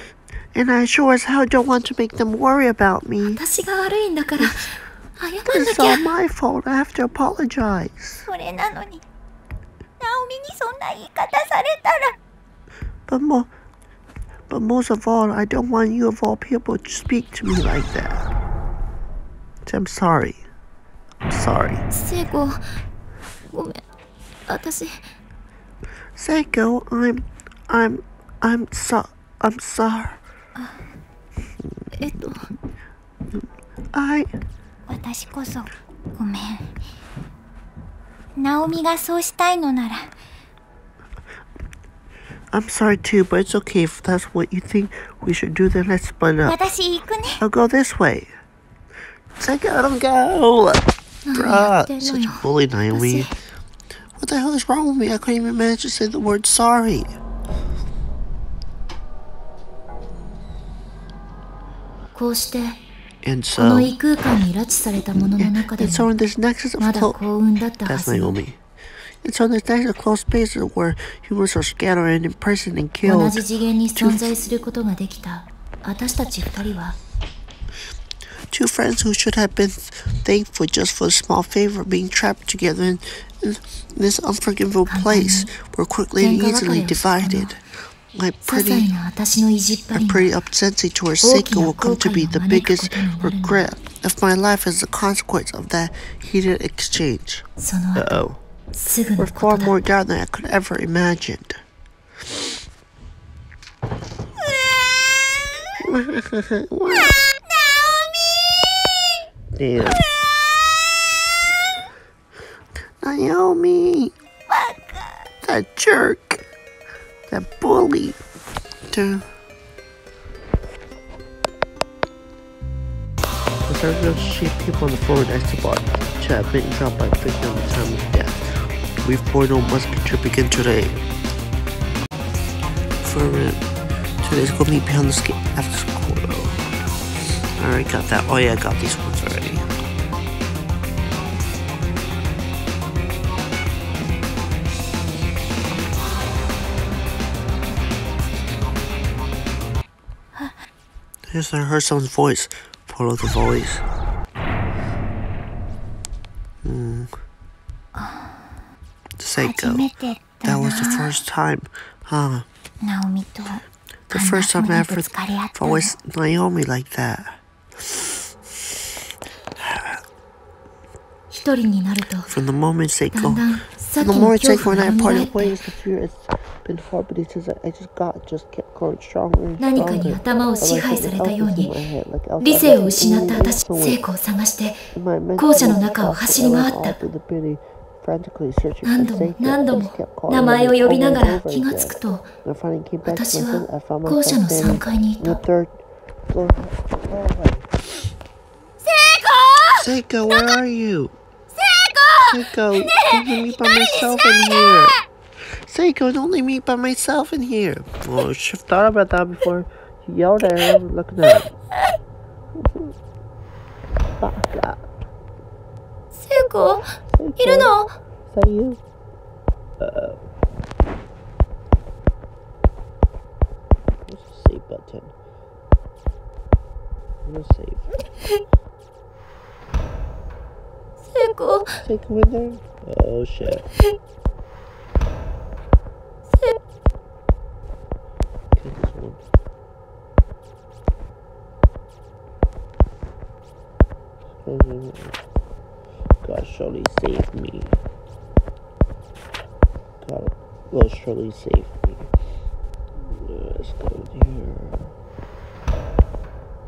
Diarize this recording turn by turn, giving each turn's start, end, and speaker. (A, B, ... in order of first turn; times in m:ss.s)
0:00.5-0:03.4 A
0:03.3-0:06.0 B
0:05.4-0:08.2 A
0:08.3-0:09.0 C
0:10.0-0:12.2 C
0:13.1-0:13.5 A
0:14.5-0:18.2 A
0:19.6-0:20.4 A
0:21.3-0:21.8 A
0:21.9-0:22.8 B
0:23.5-0:23.8 B
0:24.5-0:25.0 B
0:26.2-0:30.2 A
0:32.0-0:32.5 B
0:33.9-0:34.3 A
0:34.9-0:36.8 C
0:38.4-0:40.1 C
0:42.5-0:46.6 A
0:46.4-0:47.4 C
0:47.4-0:48.3 A
0:49.4-0:53.3 A
0:51.2-0:53.3 B
0:54.2-0:57.1 A
1:02.1-1:02.8 B
1:03.2-1:03.9 A
1:03.6-1:06.1 B
1:05.2-1:07.2 A
1:06.8-1:08.4 B
1:07.8-1:08.6 A
1:09.2-1:13.4 A
1:13.0-1:17.0 B
1:14.0-1:14.2 A
1:18.5-1:27.6 A
1:24.9-1:25.5 B
1:26.2-1:27.5 B
1:28.1-1:28.9 A
1:28.4-1:30.3 B
1:29.9-1:38.4 A
1:31.2-1:33.6 B
1:37.6-1:39.8 B
1:39.2-1:41.6 A
1:45.8-1:47.2 A
1:47.4-1:48.9 C
1:49.5-1:50.0 A
1:53.0-1:54.1 A
1:54.5-1:55.2 C
1:55.4-1:56.4 A
1:57.3-1:58.2 A
1:58.9-1:59.2 A
2:03.6-2:08.4 A
2:09.0-2:11.0 A
2:13.0-2:13.6 A
2:14.2-2:16.6 A
2:17.6-2:19.6 A
2:31.3-2:33.8 A
2:36.6-2:37.1 A
2:37.9-2:38.5 C
2:39.2-2:39.8 A
2:39.4-2:41.2 C
2:40.4-2:42.4 A
2:42.8-2:45.9 C
2:44.1-2:48.3 A
2:49.6-2:50.0 A
2:51.3-2:52.3 B
2:52.3-2:53.4 A
2:53.1-2:55.6 B
2:54.0-3:04.0 A
2:59.6-3:01.7 B
3:02.4-3:04.9 B
3:04.9-3:15.8 A
3:05.4-3:07.0 B
3:08.8-3:12.3 B
3:13.0-3:15.4 B
3:16.3-3:17.7 A
3:18.8-3:19.8 C
3:19.8-3:21.2 A
3:21.6-3:24.9 C
3:22.2-3:25.0 A
3:25.5-3:31.6 A
3:32.5-3:32.9 A
3:34.2-3:34.8 A
3:36.1-3:37.9 B
3:37.1-3:37.7 A
3:38.3-3:38.8 A
3:39.8-3:40.2 A
3:44.1-3:45.1 A
3:47.2-3:47.9 A
3:51.0-3:51.7 B
3:51.8-3:53.7 A
3:58.6-3:59.2 A
4:04.4-4:05.2 A
4:06.2-4:07.8 A
4:10.0-4:12.1 A
4:13.0-4:14.9 A